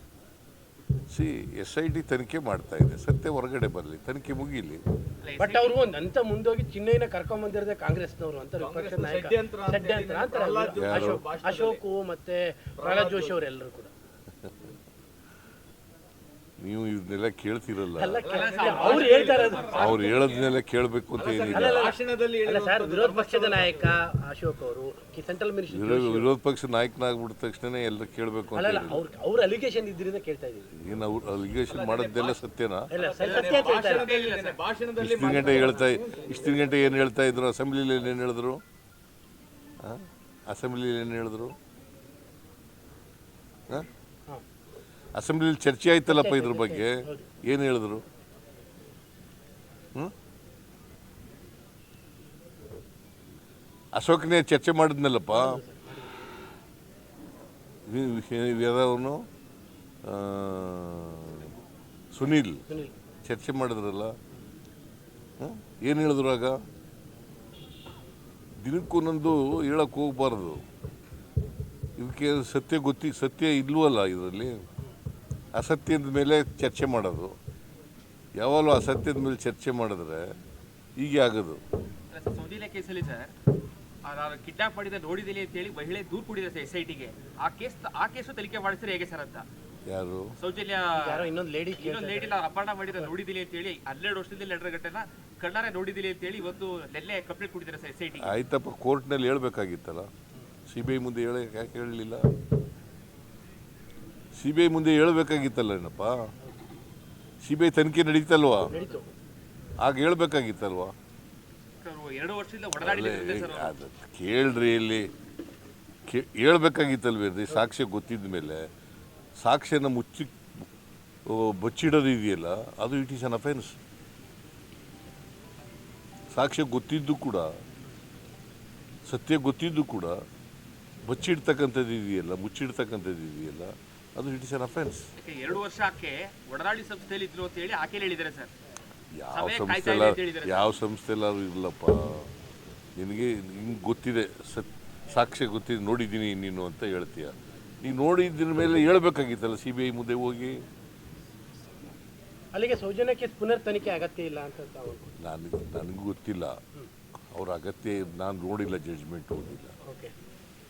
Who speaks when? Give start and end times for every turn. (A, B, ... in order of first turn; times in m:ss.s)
0:01.1-0:04.8 A
0:05.2-0:05.8 B
0:05.4-0:13.9 C
0:08.6-0:11.8 D
0:10.7-0:11.2 A
0:12.8-0:13.4 D
0:16.6-0:18.2 A
0:18.0-0:20.0 C
0:18.2-0:20.5 D
0:18.3-0:20.2 B
0:19.7-0:21.8 A
0:21.1-0:23.9 D
0:21.5-0:26.3 C
0:25.7-0:29.0 A
0:28.5-0:30.7 C
0:30.7-0:32.9 A
0:31.6-0:32.4 D
0:32.9-0:34.1 C
0:33.0-0:37.0 D
0:33.2-0:34.6 B
0:35.0-0:38.6 A
0:35.3-0:36.7 C
0:39.8-0:41.6 A
0:45.1-0:48.0 A
0:46.0-0:47.3 C
0:53.9-0:55.6 A
0:55.3-0:56.1 C
0:57.9-0:59.3 A
1:00.0-1:01.5 A
1:02.1-1:02.6 A
1:02.7-1:02.9 C
1:03.2-1:04.1 A
1:05.4-1:06.6 A
1:08.6-1:10.6 A
1:12.0-1:14.6 A
1:15.5-1:17.4 A
1:18.4-1:20.3 A
1:21.0-1:21.6 A
1:22.1-1:23.3 B
1:24.0-1:29.4 B
1:29.8-1:30.3 A
1:30.4-1:38.3 B
1:30.9-1:33.1 C
1:38.2-1:40.1 A
1:40.7-1:42.3 A
1:44.3-1:46.2 A
1:47.4-1:48.7 A
1:48.7-1:49.1 C
1:49.8-1:50.9 A
1:51.8-1:53.8 B
1:52.8-1:55.1 A
1:56.1-1:58.7 A
1:59.4-2:00.4 A
2:01.2-2:03.8 A
2:06.3-2:07.5 A
2:09.1-2:10.2 A
2:11.0-2:15.1 A
2:15.2-2:18.5 B
2:19.1-2:22.3 A
2:19.3-2:20.7 B
2:23.0-2:30.6 A
2:32.5-2:35.1 C
2:35.2-2:36.6 A
2:37.3-2:39.8 A
2:39.9-2:40.1 C